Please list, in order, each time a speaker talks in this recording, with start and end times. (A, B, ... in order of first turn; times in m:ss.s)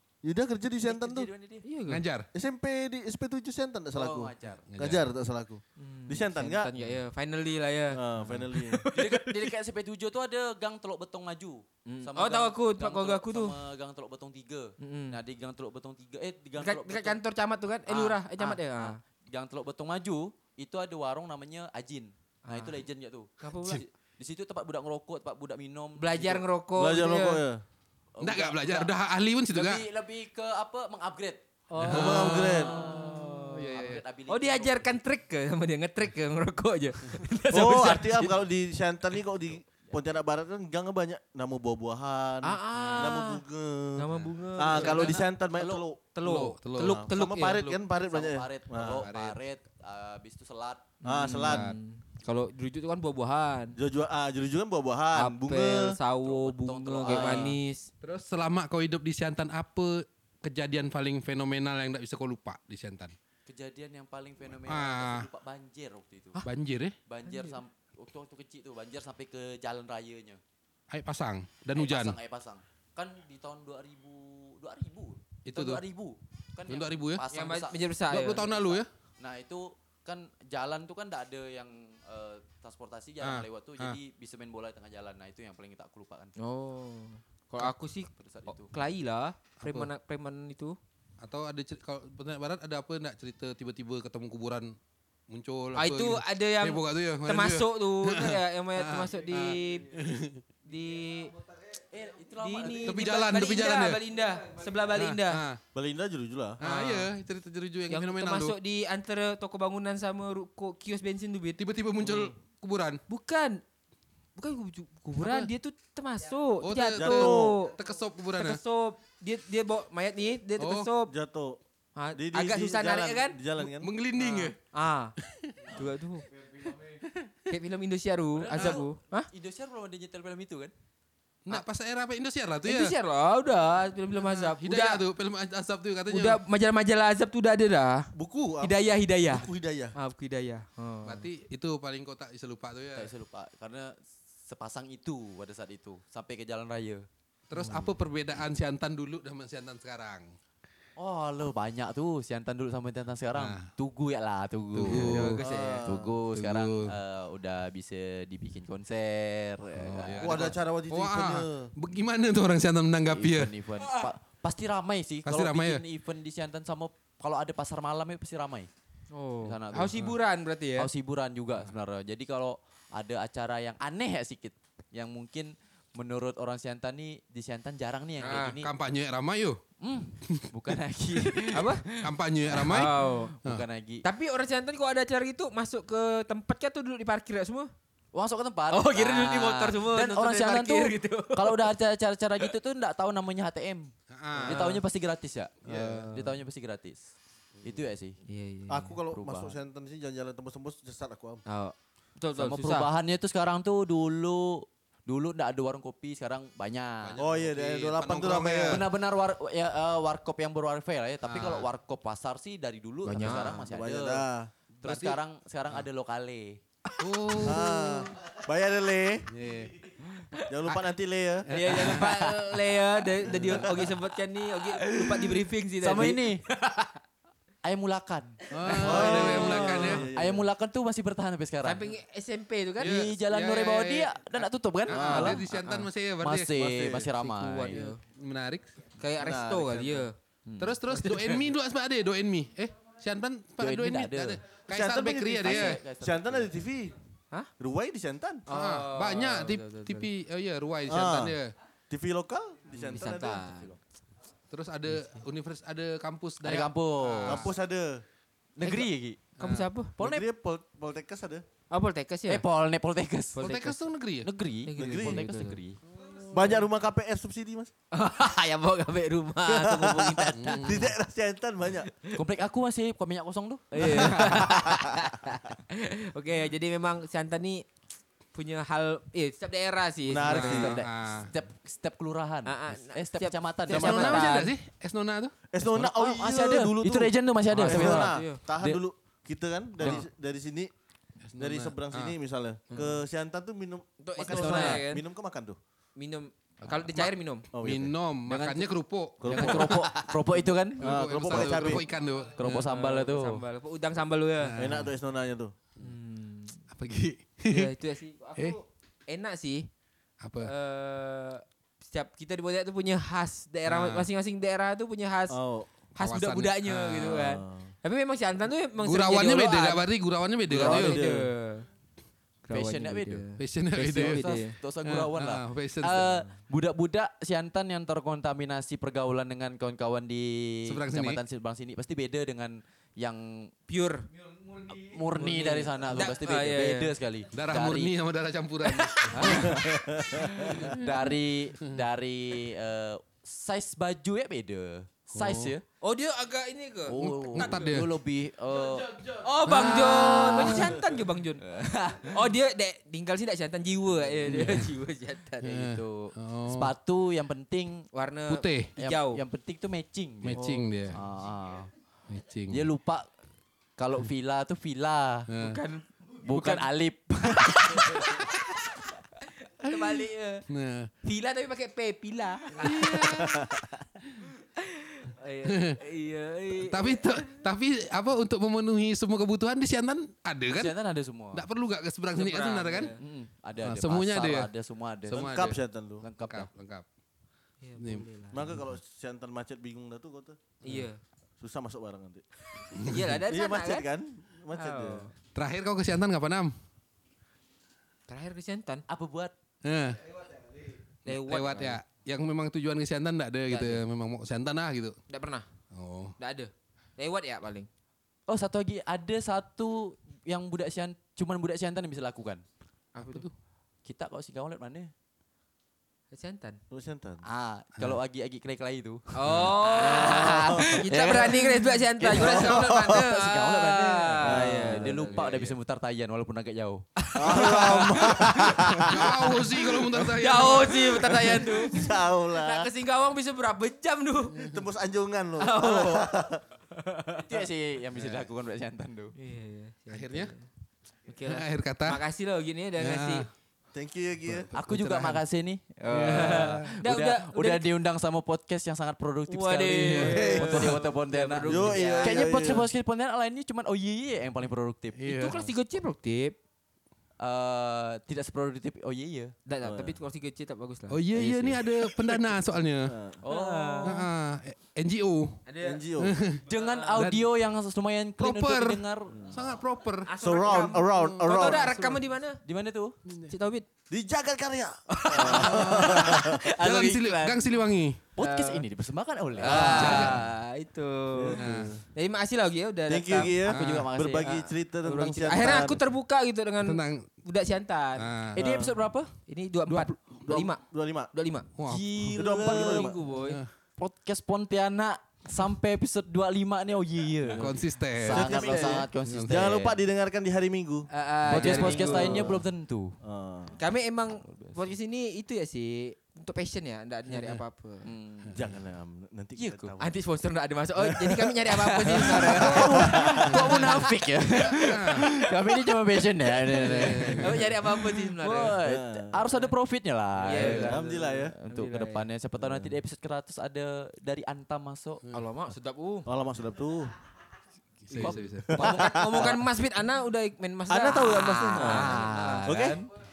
0:00.2-0:01.3 A
0:00.8-0:01.6 B
0:01.6-0:02.0 C
0:01.9-0:02.3 D
0:02.3-0:06.7 A
0:03.9-0:04.6 B
0:04.7-0:05.0 D
0:05.8-0:08.0 C
0:07.9-0:08.9 A
0:08.5-0:09.4 C
0:08.9-0:17.2 B
0:11.9-0:13.6 C
0:14.8-0:15.2 C
0:16.6-0:19.0 C
0:17.9-0:26.4 B
0:22.4-0:22.8 C
0:23.4-0:23.8 C
0:26.0-0:27.4 C
0:26.8-0:27.6 A
0:28.1-0:28.9 B
0:28.2-0:29.8 D
0:29.5-0:31.4 B
0:31.7-0:38.4 C
0:31.8-0:34.0 D
0:31.8-0:32.8 A
0:32.3-0:34.9 B
0:37.5-0:46.0 A
0:42.4-0:43.4 C
0:44.0-0:45.3 C
0:44.7-0:45.9 B
0:46.2-0:47.8 C
0:46.2-0:47.1 D
0:46.8-0:49.0 A
0:47.7-0:50.9 B
0:48.7-0:49.4 D
0:51.0-0:53.8 C
0:51.0-0:51.6 A
0:51.4-0:51.8 D
0:53.8-0:56.0 A
0:55.1-0:57.9 C
0:56.2-0:57.6 B
0:57.1-0:57.6 A
0:58.0-1:03.1 D
1:03.4-1:06.4 B
1:04.6-1:05.3 D
1:06.4-1:07.0 D
1:07.1-1:10.4 B
1:07.3-1:07.6 C
1:10.9-1:12.2 D
1:11.7-1:26.3 B
1:15.4-1:15.8 D
1:16.7-1:17.3 D
1:17.3-1:18.4 C
1:18.1-1:18.9 D
1:23.2-1:24.0 D
1:26.4-1:30.8 C
1:28.2-1:28.7 B
1:29.6-1:29.9 D
1:31.2-1:34.7 D
1:35.3-1:40.4 D
1:35.7-1:39.9 C
1:40.6-1:41.3 C
1:41.9-1:43.2 B
1:42.4-1:45.4 C
1:42.8-1:44.0 D
1:44.9-1:45.6 D
1:45.7-1:46.6 A
1:46.6-1:48.6 D
1:46.6-1:47.1 C
1:47.9-1:51.6 C
1:51.6-1:53.0 D
1:53.1-1:53.6 C
1:54.4-1:57.7 C
1:55.2-1:55.5 D
1:56.6-1:58.6 D
1:57.0-1:57.6 A
1:58.4-2:01.1 C
2:00.6-2:00.9 D
2:01.1-2:01.6 A
2:02.0-2:03.4 C
2:02.1-2:03.9 A
2:03.6-2:04.6 D
2:04.2-2:05.1 C
2:05.3-2:05.7 D
2:05.7-2:06.3 C
2:07.5-2:09.3 C
2:08.3-2:10.7 B
2:08.5-2:08.8 D
2:11.4-2:12.9 D
2:12.6-2:15.0 C
2:14.2-2:16.4 D
2:16.1-2:21.3 C
2:18.1-2:19.9 A
2:21.0-2:23.1 D
2:23.0-2:27.0 B
2:27.5-2:30.3 D
2:31.0-2:40.6 B
2:33.3-2:33.7 D
2:34.7-2:35.4 D
2:34.9-2:35.9 C
2:35.4-2:36.2 A
2:36.3-2:36.9 D
2:39.8-2:43.5 D
2:40.2-2:41.7 A
2:43.1-2:48.7 B
2:45.2-2:45.8 D
2:49.1-2:50.9 C
2:49.4-2:50.1 B
2:50.8-2:58.7 B
2:58.2-2:58.6 C
2:58.6-2:59.6 D
2:59.8-3:04.0 B
3:01.2-3:02.9 D
3:01.5-3:01.8 C
3:02.6-3:03.3 C
3:04.0-3:07.7 C
3:08.1-3:13.9 B
3:08.7-3:11.7 C
3:14.1-3:14.7 D
3:14.4-3:14.8 C
3:14.4-3:18.2 B
3:15.6-3:16.3 C
3:18.3-3:19.0 C
3:18.7-3:21.4 A
3:19.1-3:19.6 B
3:21.4-3:22.9 C
3:22.3-3:27.2 B
3:27.0-3:28.9 D
3:27.2-3:28.8 A
3:28.6-3:34.3 B
3:31.3-3:31.7 D
3:33.0-3:33.7 C
3:33.7-3:34.5 A
3:34.8-3:36.6 B
3:34.8-3:35.2 D
3:37.0-3:38.1 D
3:37.4-3:39.3 A
3:39.3-3:39.8 D
3:40.5-3:41.4 A
3:41.4-3:42.4 D
3:41.5-3:47.0 C
3:44.6-3:46.4 B
3:47.6-3:51.9 B
3:48.5-3:50.1 D
3:48.7-3:50.1 C
3:48.7-3:50.5 A
3:51.6-3:53.0 C
3:52.8-3:55.6 B
3:52.8-3:57.1 D
3:54.9-3:55.4 A
3:55.0-3:55.8 C
3:56.2-3:57.9 B
3:56.6-3:57.0 A
3:57.1-3:58.0 C
3:57.7-3:58.7 D
3:59.0-4:00.1 C
3:59.2-4:00.1 A
4:00.4-4:01.3 B
4:00.6-4:05.8 D
4:03.6-4:04.4 B
4:04.7-4:06.9 A
4:05.4-4:06.6 B
4:07.6-4:08.4 A
4:08.5-4:10.1 C
4:08.5-4:11.5 D
4:10.9-4:11.3 A
4:11.9-4:13.5 A
4:12.8-4:13.8 C
4:14.5-4:17.5 D
4:16.4-4:17.5 B
4:17.2-4:18.0 A
4:18.6-4:19.2 B
4:18.6-4:19.9 C
4:19.4-4:19.7 D
4:20.0-4:21.4 A
4:20.0-4:20.3 B
4:21.7-4:22.4 C
4:22.3-4:23.4 B
4:23.3-4:23.8 C
4:23.4-4:24.3 D
4:24.2-4:25.8 B
4:24.6-4:25.6 C
4:24.8-4:25.2 A
4:26.3-4:27.7 A
4:27.9-4:30.9 C
4:29.4-4:31.9 A
4:30.4-4:30.8 D
4:31.9-4:32.2 C
4:32.1-4:34.9 B
4:33.7-4:37.7 C
4:33.9-4:34.5 A
4:38.3-4:40.6 C
4:40.1-4:40.8 A
4:40.2-4:41.3 D
4:40.3-4:44.3 B
4:42.4-4:44.6 C
4:43.7-4:45.3 D
4:45.5-4:50.7 A
4:45.6-4:48.8 B
4:47.5-4:47.9 D
4:47.7-4:48.4 C
4:51.2-4:52.2 D
4:51.4-4:55.6 A
4:54.0-4:55.0 C
4:54.3-4:54.9 B
4:56.0-4:57.5 C
4:56.8-4:59.9 D
4:57.5-4:57.9 A
4:58.3-5:01.8 B
4:59.2-4:59.6 A
4:59.4-5:00.2 C
5:00.8-5:02.6 D
5:00.8-5:01.8 A
5:02.4-5:03.4 B
5:02.6-5:04.6 C
5:04.4-5:04.9 D
5:04.6-5:05.5 A
5:05.8-5:06.6 C
5:06.7-5:07.7 D
5:07.5-5:09.7 C
5:10.2-5:10.5 D
5:10.4-5:15.4 C
5:13.6-5:14.1 D
5:15.3-5:15.7 A
5:16.0-5:19.8 C
5:16.0-5:17.2 D
5:17.0-5:17.7 A
5:18.8-5:21.0 D
5:20.5-5:21.7 C
5:20.5-5:21.3 A
5:22.4-5:24.6 C
5:22.5-5:23.2 B
5:23.4-5:26.3 D
5:23.9-5:33.5 B
5:30.7-5:31.2 D
5:33.7-5:34.0 C
5:34.4-5:37.9 B
5:35.1-5:36.9 C
5:37.3-5:39.6 D
5:38.6-5:39.6 C
5:39.1-5:45.6 B
5:39.4-5:40.5 A
5:40.5-5:40.9 D
5:45.1-5:45.5 D
5:45.8-5:47.6 C
5:46.9-5:49.1 B
5:47.0-5:47.9 D
5:49.1-5:51.4 C
5:49.4-5:50.8 D
5:51.4-5:52.2 B
5:52.0-5:55.6 C
5:54.3-5:54.7 D
5:55.4-5:56.7 D
5:55.4-5:57.9 B
5:57.9-5:59.2 C
5:58.3-5:58.7 D
5:58.8-6:00.4 B
6:00.2-6:01.0 D
6:00.3-6:00.7 C
6:00.9-6:01.7 B
6:02.1-6:02.7 D
6:02.5-6:03.1 B
6:03.8-6:05.3 B
6:05.3-6:05.6 D
6:05.4-6:05.8 C
6:06.2-6:08.5 B
6:07.6-6:08.2 C
6:09.2-6:10.4 C
6:09.6-6:10.9 D
6:11.0-6:13.5 C
6:12.6-6:13.5 D
6:14.4-6:17.3 C
6:15.4-6:15.8 D
6:16.6-6:20.7 D
6:20.5-6:21.4 B
6:21.3-6:22.9 D
6:22.1-6:23.0 C
6:23.0-6:26.5 B
6:23.6-6:24.5 D
6:25.1-6:25.6 D
6:25.1-6:26.0 A
6:26.2-6:26.8 D
6:27.6-6:28.4 C
6:27.8-6:28.6 D
6:28.3-6:30.4 A
6:30.6-6:31.0 C
6:31.4-6:32.2 A
6:32.6-6:33.8 C
6:32.7-6:33.2 D
6:33.3-6:35.1 A
6:34.5-6:35.1 C
6:35.3-6:36.6 D
6:38.1-6:38.8 C
6:38.9-6:39.3 B
6:39.6-6:40.1 D
6:41.0-6:45.0 D
6:41.0-6:41.8 C
6:43.5-6:43.8 C
6:45.1-6:45.4 C
6:45.7-6:46.1 D
6:46.2-6:47.7 C
6:48.3-6:52.4 B
6:52.9-6:53.3 C
6:53.0-6:53.3 D
6:53.8-6:54.9 B
6:56.1-6:56.6 C
6:56.7-6:57.2 A
6:57.2-7:08.1 B
6:59.1-7:05.3 C
6:59.8-7:00.8 A
7:02.1-7:02.9 A
7:04.2-7:05.4 A
7:07.0-7:09.0 C
7:07.1-7:09.3 A
7:08.9-7:11.1 D
7:09.9-7:14.5 C
7:11.0-7:12.7 A
7:14.4-7:16.4 A
7:15.4-7:16.1 C
7:16.7-7:17.4 C
7:17.2-7:19.1 B
7:17.9-7:18.3 D
7:19.2-7:20.4 C
7:19.9-7:20.3 D
7:21.1-7:23.3 C
7:21.3-7:22.0 D
7:22.8-7:23.3 D
7:23.7-7:24.5 A
7:24.2-7:25.2 D
7:24.5-7:35.4 B
7:25.9-7:26.7 D
7:25.9-7:27.7 C
7:29.3-7:32.3 C
7:30.0-7:30.4 D
7:30.1-7:30.8 A
7:31.4-7:32.7 A
7:35.0-7:35.4 D
7:35.1-7:36.4 C
7:37.2-7:39.3 B
7:39.5-7:41.0 C
7:39.6-7:40.0 A
7:40.9-7:42.9 D
7:41.2-7:41.6 B
7:41.2-7:41.5 A
7:42.9-7:43.2 A
7:43.2-7:44.0 B
7:43.3-7:44.0 C
7:43.8-7:45.4 D
7:45.4-7:45.8 C
7:45.6-7:46.1 A
7:46.0-7:46.4 D
7:46.4-7:49.4 B
7:46.5-7:47.0 C
7:47.0-7:47.2 D
7:48.2-7:52.0 D
7:50.0-7:52.4 C
7:50.2-7:51.7 A
7:52.4-7:53.0 B
7:53.3-7:53.6 C
7:53.9-7:56.4 A
7:54.9-7:57.4 C
7:55.2-7:58.0 D
7:58.2-8:00.3 B
7:58.2-7:58.6 C
7:59.4-8:01.4 C
7:59.4-8:00.2 D
7:59.5-7:59.9 A
8:01.1-8:01.8 A
8:01.4-8:01.7 D
8:01.9-8:03.4 C
8:02.9-8:05.8 A
8:03.4-8:03.8 D
8:03.5-8:04.3 B
8:04.2-8:08.0 C
8:06.6-8:07.1 D
8:08.0-8:08.4 D
8:08.3-8:08.7 A
8:08.3-8:09.1 B
8:09.3-8:10.6 C
8:09.7-8:10.0 D
8:10.3-8:11.1 A
8:11.1-8:11.5 C
8:11.6-8:12.2 D
8:11.7-8:13.0 B
8:12.0-8:13.4 C
8:12.2-8:13.0 A
8:13.2-8:13.5 D
8:13.8-8:19.8 B
8:17.3-8:19.4 D
8:18.1-8:22.4 A
8:20.9-8:22.3 C
8:21.3-8:23.0 B
8:21.4-8:21.8 D
8:23.0-8:23.6 A
8:23.6-8:27.9 C
8:24.1-8:24.6 B
8:27.8-8:28.3 B
8:28.3-8:29.9 A
8:29.4-8:29.7 B
8:29.8-8:33.8 C
8:30.9-8:31.2 A
8:31.4-8:45.0 B
8:31.9-8:33.5 A
8:32.3-8:33.7 D
8:34.3-8:35.2 D
8:36.5-8:37.3 D
8:36.7-8:38.6 C
8:38.6-8:39.2 A
8:39.2-8:39.5 C
8:40.2-8:42.1 C
8:40.3-8:41.3 A
8:40.4-8:40.7 D
8:42.4-8:42.7 A
8:45.1-8:46.1 C
8:46.0-8:46.9 A
8:47.9-8:48.8 D
8:47.9-8:52.6 C
8:47.9-8:49.3 B
8:48.5-8:49.4 A
8:50.7-8:52.8 A
8:51.4-8:52.9 B